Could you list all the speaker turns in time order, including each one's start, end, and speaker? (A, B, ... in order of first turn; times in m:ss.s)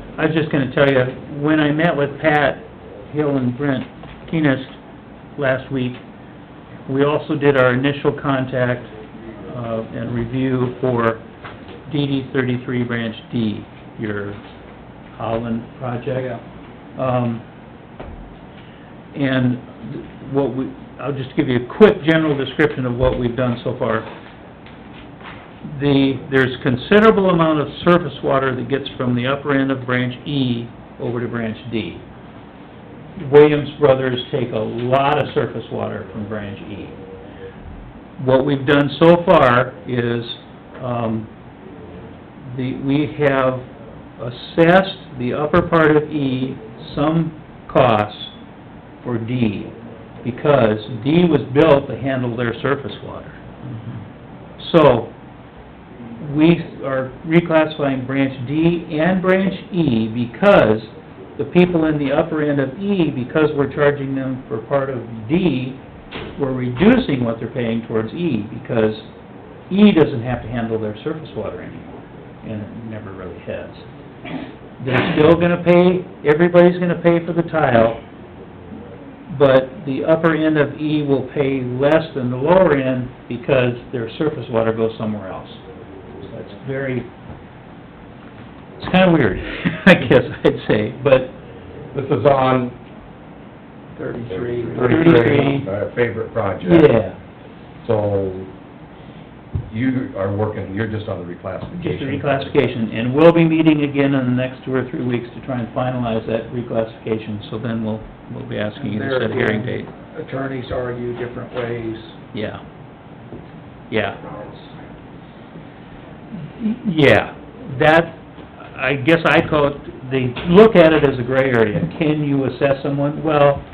0:00.2-0:04.8 A
0:05.4-0:06.0 A
0:06.9-0:11.2 A
0:11.9-0:14.4 A
0:15.1-0:16.3 A
0:16.2-0:16.4 B
0:17.0-0:17.4 A
0:19.1-0:24.1 A
0:25.6-0:32.0 A
0:33.2-0:37.0 A
0:38.2-0:41.3 A
0:42.4-0:43.7 A
0:44.2-0:48.3 A
0:49.0-0:53.4 A
0:53.7-0:54.0 B
0:54.6-0:55.1 A
0:56.2-1:05.8 A
1:06.4-1:09.1 A
1:09.7-1:13.9 A
1:14.8-1:18.0 A
1:19.3-1:25.6 A
1:26.2-1:27.1 A
1:28.8-1:31.3 A
1:31.9-1:32.8 C
1:34.0-1:35.5 B
1:34.3-1:36.9 C
1:34.8-1:35.7 A
1:36.6-1:37.2 A
1:37.8-1:38.5 C
1:39.7-1:42.7 C
1:41.7-1:49.9 A
1:48.8-1:52.2 B
1:52.3-1:52.6 A
1:53.9-1:54.5 A
1:56.6-2:03.6 A